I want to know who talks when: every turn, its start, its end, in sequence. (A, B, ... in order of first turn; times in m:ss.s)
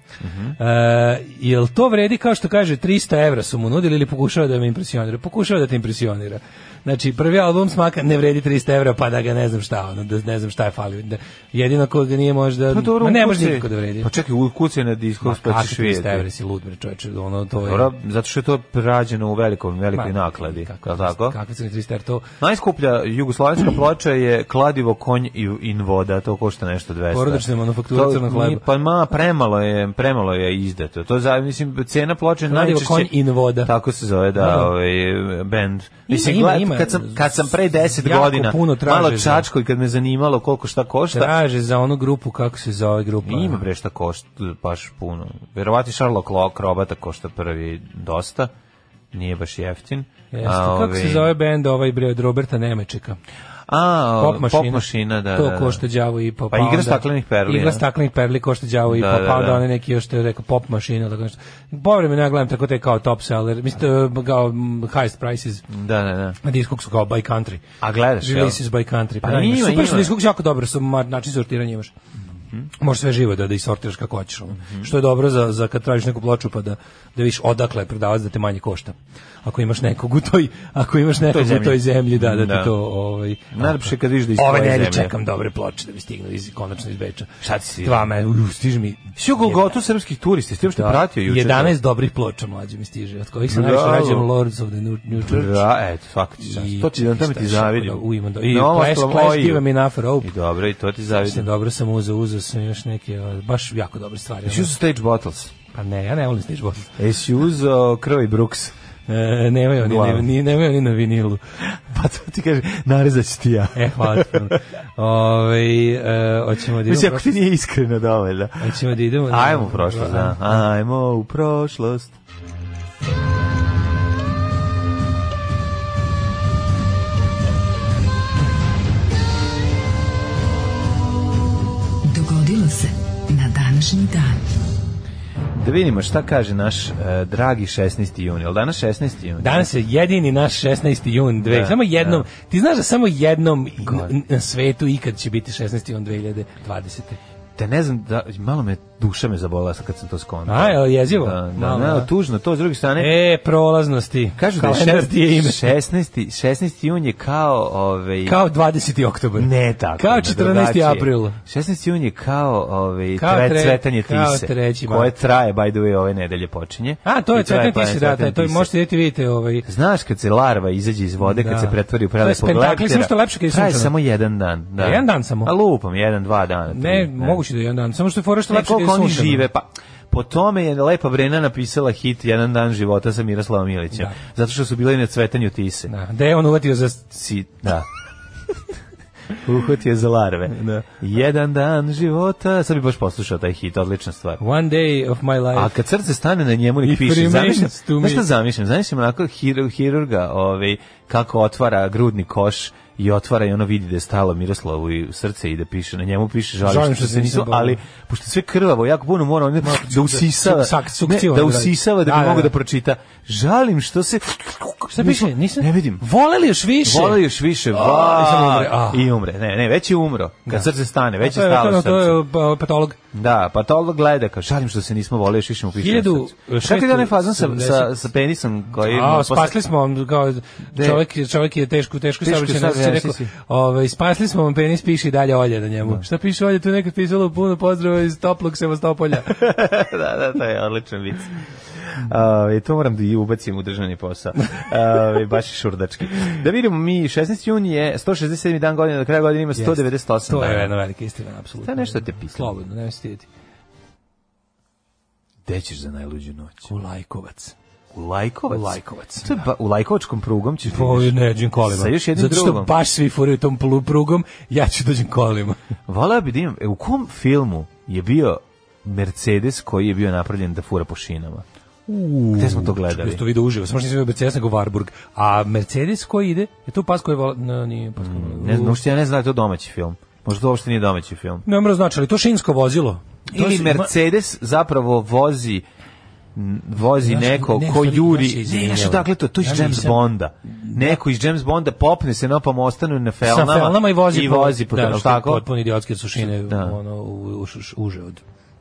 0:00.2-0:00.6 A
0:00.6-0:14.1 B
0:12.7-0:16.2 A
0:15.2-0:17.9 B
0:17.6-0:21.4 A
0:20.0-0:22.3 B
0:22.4-0:41.3 A
0:27.1-0:28.6 B
0:32.5-0:33.7 B
0:34.4-0:34.7 B
0:36.1-0:39.5 B
0:41.1-0:43.6 B
0:43.2-0:48.5 A
0:49.1-0:51.3 A
0:50.3-0:53.2 B
0:53.7-0:55.8 A
0:54.2-1:05.6 B
0:56.5-0:57.8 A
0:58.9-0:59.6 A
1:05.7-1:06.4 A
1:06.4-1:07.6 B
1:07.8-1:08.6 A
1:08.2-1:11.9 B
1:09.2-1:10.1 A
1:12.8-1:27.3 B
1:14.6-1:14.9 A
1:21.3-1:22.7 A
1:23.5-1:25.1 A
1:27.4-1:28.0 A
1:27.8-1:29.6 B
1:29.2-1:31.8 A
1:30.7-1:35.6 B
1:33.5-1:34.3 A
1:35.2-1:39.6 A
1:36.4-1:40.3 B
1:40.2-1:41.5 A
1:41.2-1:44.7 B
1:44.4-1:45.5 A
1:45.7-1:46.9 B
1:47.0-1:48.7 A
1:49.1-1:51.4 B
1:49.8-1:50.3 A
1:51.6-1:54.5 A
1:53.7-1:57.3 B
1:56.8-2:02.2 A
1:58.6-2:00.6 B
2:12.0-2:14.4 C
2:15.5-2:19.7 A
2:19.4-2:27.2 B
2:21.4-2:22.3 A
2:23.8-2:24.1 A
2:27.6-2:33.1 A
2:30.5-2:32.1 B
2:33.0-2:35.7 B
2:34.4-2:38.4 A
2:38.2-2:41.4 B
2:39.4-2:48.7 A
2:43.2-2:45.1 B
2:47.0-2:49.7 B
2:49.6-2:57.4 A
2:51.2-2:53.9 B
2:54.8-2:55.5 B
2:56.7-2:59.5 B
2:58.5-3:05.9 A
3:05.9-3:07.2 B
3:07.2-3:07.9 A
3:09.4-3:14.4 A
3:10.5-3:10.8 B
3:14.4-3:15.7 B
3:15.5-3:36.0 A
3:16.8-3:18.2 B
3:26.6-3:27.8 B
3:29.6-3:32.5 B
3:34.9-3:39.0 B
3:36.8-3:42.2 A
3:41.2-3:43.0 B
3:43.1-3:49.6 A
3:45.8-3:47.9 B
3:48.8-3:59.4 B
3:50.7-3:51.0 A
3:52.2-3:53.3 A
3:59.2-4:10.7 A
4:09.6-4:13.3 B
4:11.6-4:12.5 A
4:15.4-4:16.7 A
4:16.6-4:17.5 B
4:17.9-4:22.7 A
4:18.5-4:19.4 B
4:20.7-4:25.6 B
4:25.9-4:31.4 A
4:31.9-4:38.8 B
4:32.3-4:33.2 A
4:38.0-4:41.4 A
4:41.4-4:43.9 B
4:43.3-4:45.6 A
4:46.3-4:55.4 A
4:47.0-4:51.0 B
4:53.2-4:58.2 B
4:56.2-4:56.8 A